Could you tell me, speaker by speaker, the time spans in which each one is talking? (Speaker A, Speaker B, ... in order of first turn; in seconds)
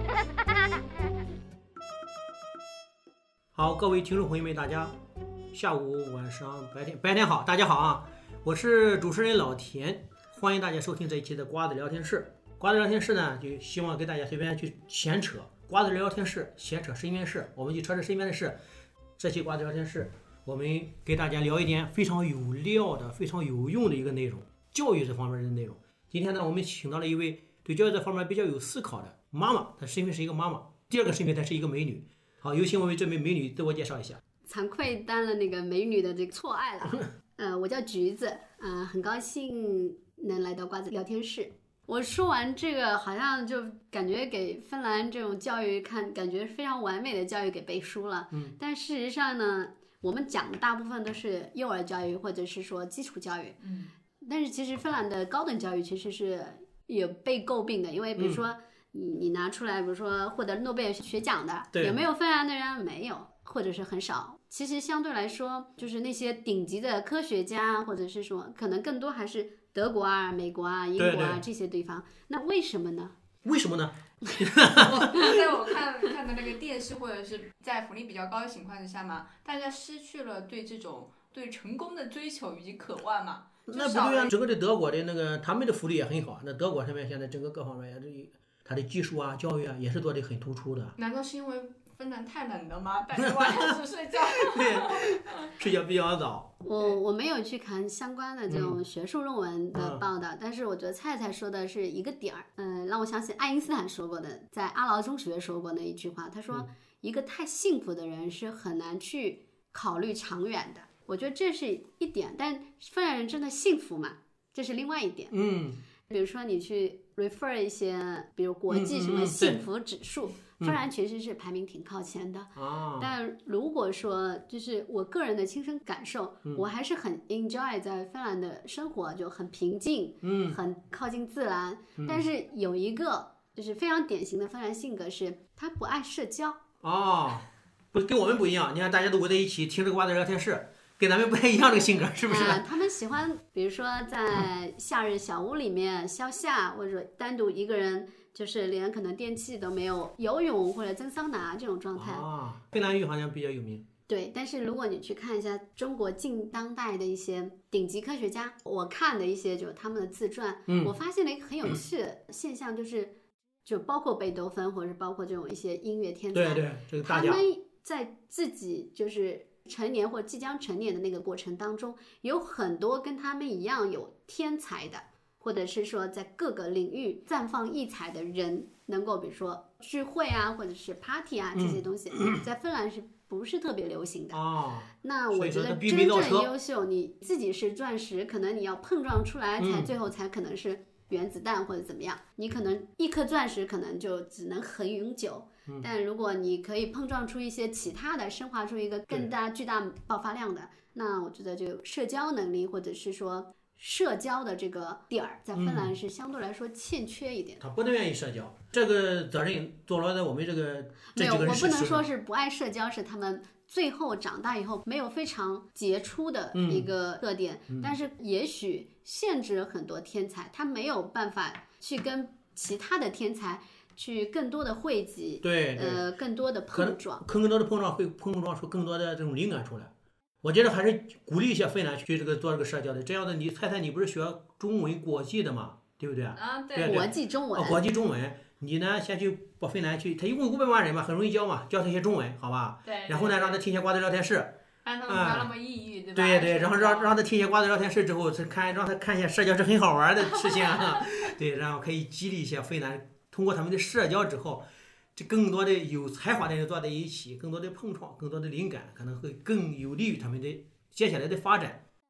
Speaker A: 3.5-4.9, 5.5-18.6, 19.2-34.2, 58.2-58.4, 61.7-62.0, 71.0-71.4, 73.4-75.5, 83.7-90.9, 93.1-96.5, 98.5-98.8, 99.7-100.0, 115.3-115.8, 118.7-119.6, 122.5-123.1, 130.2-130.6, 132.0-132.2, 136.8-142.7, 151.9-153.8, 160.7-160.9, 166.3-167.4, 181.6-182.4, 184.3-186.5, 189.6-189.9, 205.5-205.9, 207.6-212.1, 216.5-216.9, 217.7-217.9, 225.4-226.0, 226.7-229.9, 230.4-244.5, 245.1-245.5, 246.1-261.8
Speaker B: 34.4-53.6, 54.2-73.1, 96.6-115.3, 116.1-136.6, 142.2-152.2, 154.1-163.1, 163.6-184.4, 184.9-207.6, 211.1-227.2, 236.8-237.8
Speaker C: 53.6-53.9, 74.7-84.3, 91.0-95.5, 236.3-237.0, 242.8-243.6, 244.8-247.2